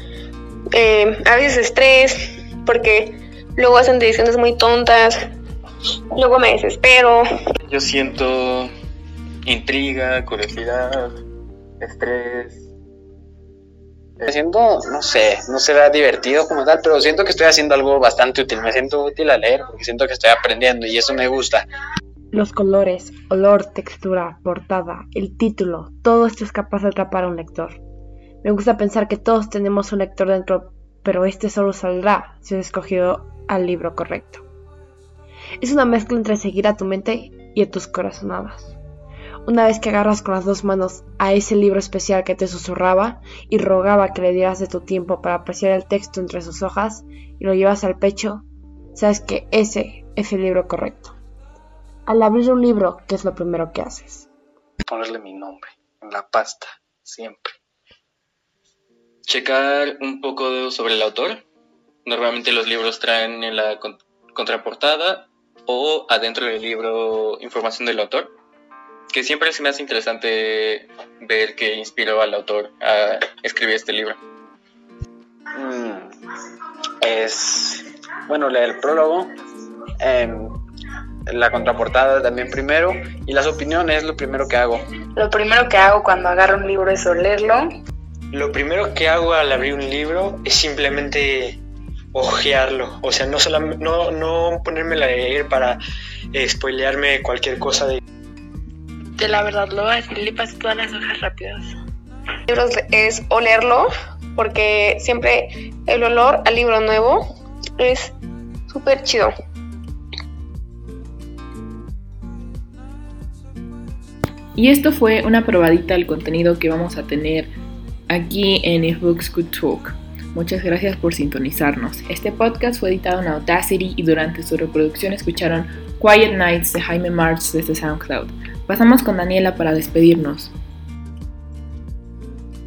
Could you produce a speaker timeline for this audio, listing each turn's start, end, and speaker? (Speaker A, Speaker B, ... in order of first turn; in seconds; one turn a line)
Speaker A: 0.7-5.2
Speaker A: 6.1-7.2
Speaker B: 7.6-8.7
Speaker B: 9.4-11.2
Speaker B: 11.8-12.6
Speaker C: 14.2-21.6
Speaker D: 22.3-27.8
Speaker D: 28.4-34.4
Speaker D: 35.6-38.8
Speaker D: 39.5-51.2
Speaker D: 52.1-54.3
Speaker E: 54.8-57.5
Speaker B: 59.2-61.4
Speaker B: 62.1-68.3
Speaker B: 69.1-74.2
Speaker C: 75.6-76.0
Speaker C: 77.0-79.3
Speaker C: 80.0-80.5
Speaker C: 81.3-84.8
Speaker F: 85.2-87.7
Speaker G: 88.3-91.6
Speaker G: 92.1-95.8
Speaker G: 96.3-98.0
Speaker F: 99.2-101.8
Speaker A: 102.5-107.2
Speaker A: 107.8-108.1
Speaker A: 108.7-109.3
Speaker H: 114.6-117.5
Speaker H: 118.1-130.5